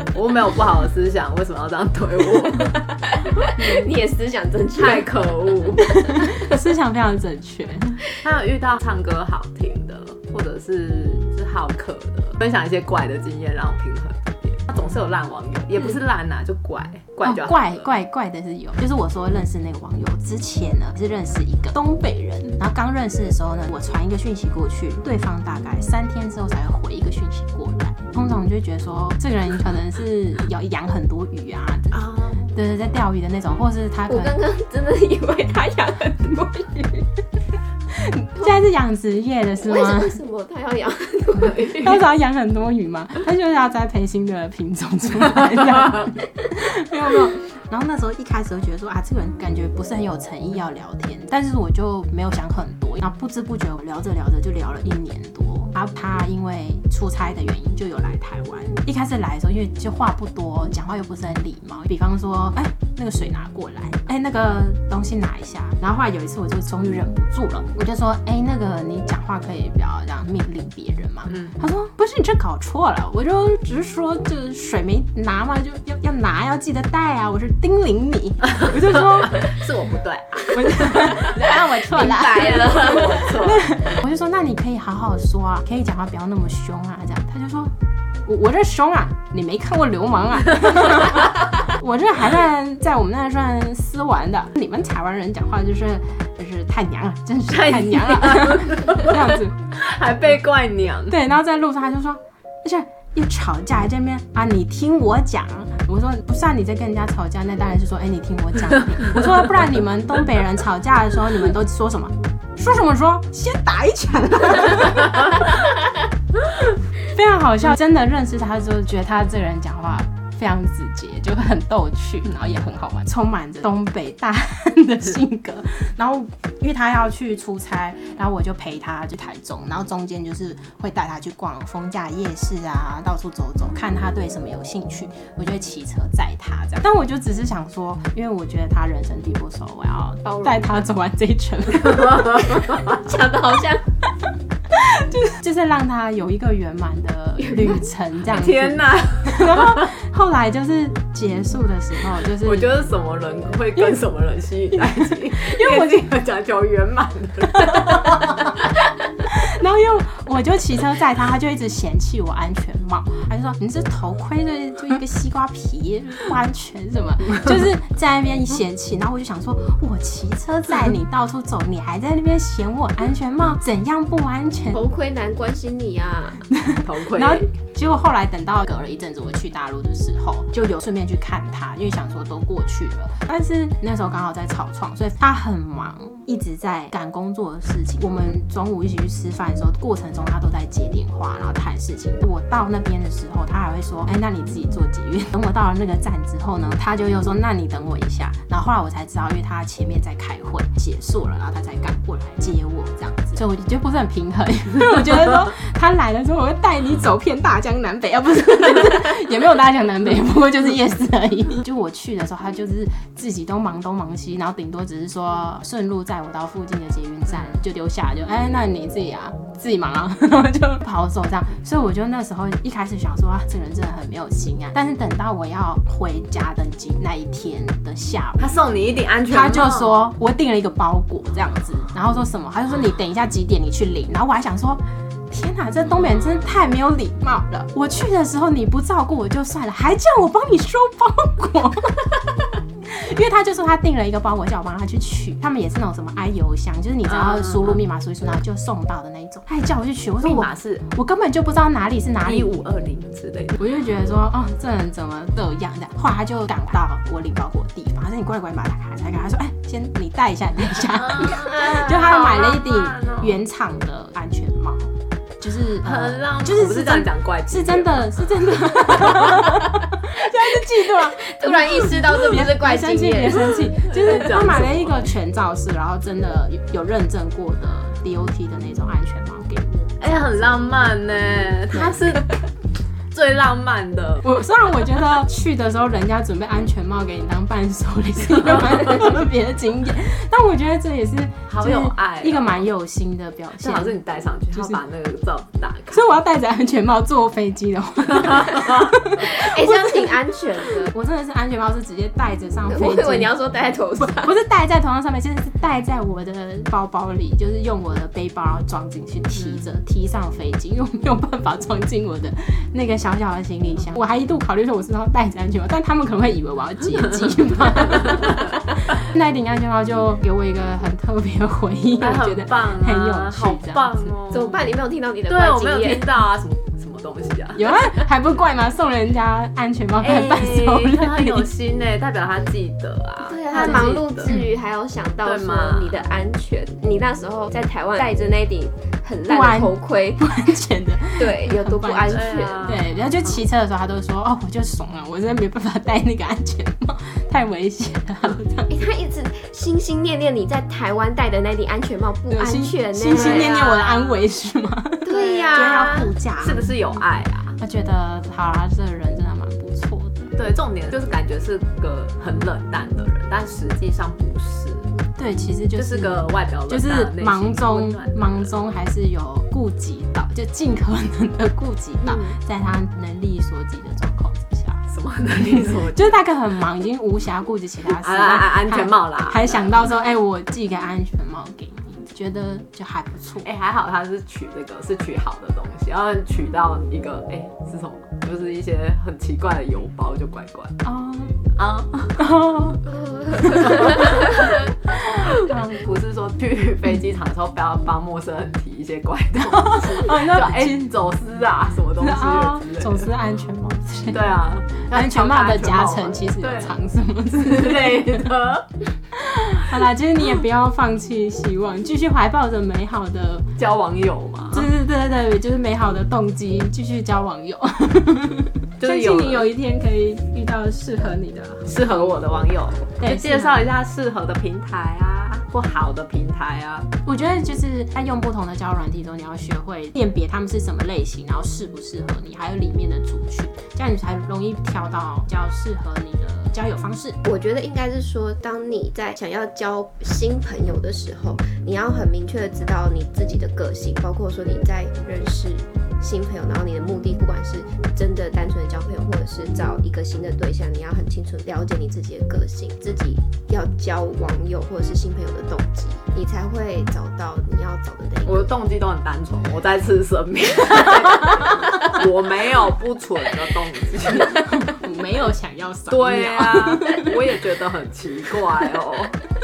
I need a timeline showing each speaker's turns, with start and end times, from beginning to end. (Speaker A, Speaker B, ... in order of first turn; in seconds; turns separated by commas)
Speaker A: 0.1-3.9, Speaker B: 3.5-5.1, Speaker A: 4.7-6.0, Speaker B: 5.8-6.3, Speaker C: 6.1-8.0, Speaker A: 8.2-17.9, Speaker C: 17.2-34.4, Speaker A: 31.9-32.5, Speaker B: 34.1-37.1, Speaker C: 38.0-40.2, Speaker B: 39.6-42.0, Speaker C: 41.8-79.5, Speaker A: 71.3-71.6, Speaker A: 78.5-83.8, Speaker C: 80.5-87.7, Speaker B: 82.0-83.2, Speaker C: 88.2-99.6, Speaker A: 97.5-101.2, Speaker C: 101.1-115.8, Speaker C: 116.5-142.5, Speaker B: 140.2-140.9, Speaker B: 142.4-143.8, Speaker C: 144.7-152.7, Speaker A: 148.3-149.9, Speaker A: 152.3-158.5, Speaker C: 154.7-156.1, Speaker C: 157.6-158.4, Speaker C: 159.3-174.8, Speaker B: 174.7-176.5, Speaker C: 176.5-228.6, Speaker A: 176.8-177.5, Speaker A: 217.3-217.6, Speaker A: 228.4-229.9, Speaker C: 229.3-252.6, Speaker A: 247.1-247.8, Speaker A: 250.2-250.9, Speaker A: 252.2-253.9, Speaker C: 253.6-280.7, Speaker A: 260.9-263.4, Speaker A: 265.8-268.3, Speaker A: 268.9-269.6, Speaker B: 271.2-273.6, Speaker A: 273.8-275.1, Speaker A: 280.0-282.5, Speaker C: 281.7-282.2, Speaker A: 283.1-284.4, Speaker C: 284.2-294.8, Speaker A: 291.5-292.7, Speaker A: 293.6-296.1, Speaker C: 295.9-300.1, Speaker A: 298.3-298.7, Speaker B: 299.2-300.9, Speaker C: 300.7-303.4, Speaker B: 302.7-304.3, Speaker C: 304.0-324.1, Speaker A: 309.3-309.7, Speaker A: 322.0-324.6, Speaker B: 324.3-326.1, Speaker A: 325.3-328.0, Speaker C: 327.6-331.5, Speaker A: 330.0-334.4, Speaker B: 333.2-340.2, Speaker C: 333.5-334.5, Speaker A: 335.2-336.1, Speaker C: 339.3-348.8, Speaker B: 341.1-342.7, Speaker A: 342.1-343.4, Speaker B: 348.7-353.6, Speaker C: 352.3-357.0, Speaker A: 353.1-354.3, Speaker B: 355.1-356.1, Speaker A: 355.1-357.6, Speaker C: 357.6-360.3, Speaker A: 360.4-364.9, Speaker C: 365.2-374.8, Speaker A: 365.7-368.5, Speaker B: 372.0-372.4, Speaker A: 374.9-376.2, Speaker C: 375.4-383.5, Speaker A: 377.9-379.8, Speaker A: 383.4-390.8, Speaker C: 390.8-391.4, Speaker A: 391.6-392.2, Speaker C: 392.2-392.8, Speaker B: 392.9-394.5, Speaker A: 393.4-394.5, Speaker C: 393.4-395.9, Speaker A: 395.8-403.1, Speaker C: 399.4-400.9, Speaker C: 402.0-408.3, Speaker A: 404.1-408.8, Speaker C: 409.2-413.5, Speaker A: 413.6-414.7, Speaker C: 414.5-422.3, Speaker A: 418.8-419.5, Speaker A: 421.7-426.9, Speaker C: 423.0-423.7, Speaker C: 427.1-437.2, Speaker B: 437.2-458.6, Speaker A: 458.2-464.4, Speaker C: 464.1-467.3, Speaker A: 465.9-469.2